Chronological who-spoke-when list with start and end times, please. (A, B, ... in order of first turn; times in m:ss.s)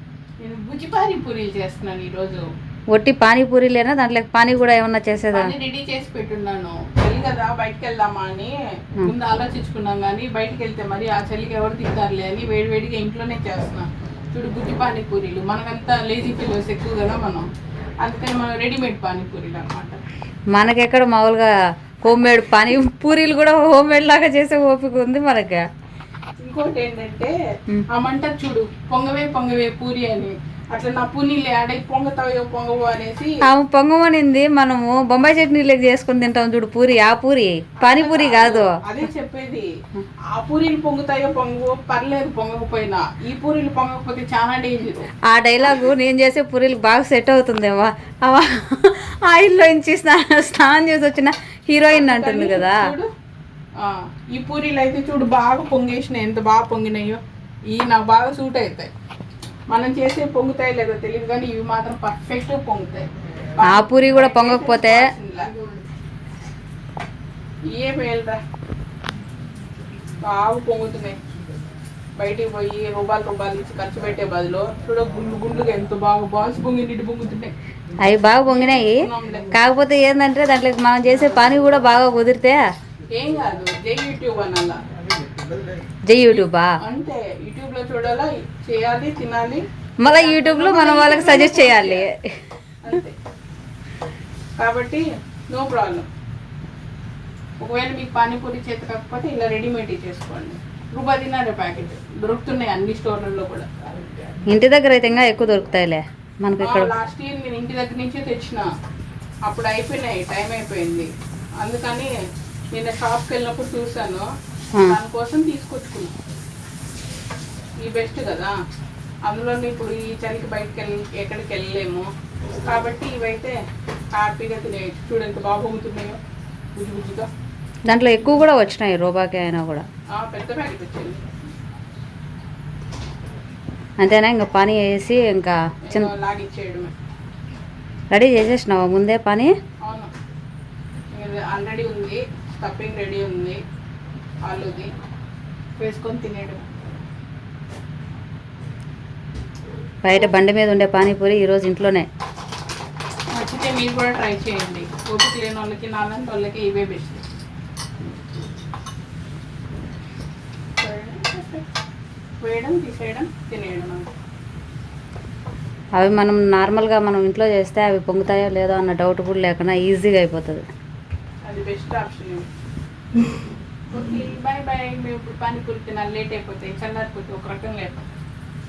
0:00.4-0:02.4 A
0:02.9-0:05.5 B
0:05.3-0:17.5 A
0:18.0-0:20.0 A
0:20.5-0:21.5 B
0:22.1-0:25.6 B
0:26.4-0:27.4 A
0:27.9-0:33.4 A
0:33.5-0:38.7 B
0:37.8-0:39.7 A
0:40.3-0:45.1 A
0:45.3-0:52.9 B
0:51.9-0:53.1 A
0:53.8-0:58.9 A
0:59.7-1:05.5 A
1:03.7-1:05.0 B
1:07.7-1:08.4 A
1:10.2-1:11.2 A
1:12.2-1:17.5 A
1:18.0-1:19.0 B
1:18.4-1:19.5 A
1:19.5-1:22.6 B
1:23.1-1:24.8 A
1:26.1-1:26.7 B
1:26.3-1:32.1 A
1:30.0-1:32.2 B
1:32.8-1:33.1 A
1:34.6-1:36.1 A
1:37.6-1:43.7 A
1:44.5-1:46.9 B
1:46.6-1:48.6 A
1:49.5-1:51.1 A
1:51.6-1:52.1 A
1:52.7-1:54.3 A
1:54.8-1:56.1 A
1:57.8-1:58.5 A
1:59.3-2:02.1 A
2:02.7-2:03.6 A
2:04.1-2:06.2 A
2:06.8-2:07.3 A
2:07.9-2:09.8 B
2:10.1-2:11.2 A
2:14.0-2:16.1 B
2:15.8-2:16.9 A
2:18.1-2:19.5 B
2:19.8-2:20.1 A
2:21.1-2:23.6 A
2:24.4-2:24.9 A
2:25.8-2:26.6 A
2:30.0-2:32.1 B
2:33.3-2:37.2 A
2:40.8-2:41.7 A
2:42.4-2:44.0 A
2:46.0-2:50.6 B
2:51.5-2:52.5 A
2:53.9-2:58.1 A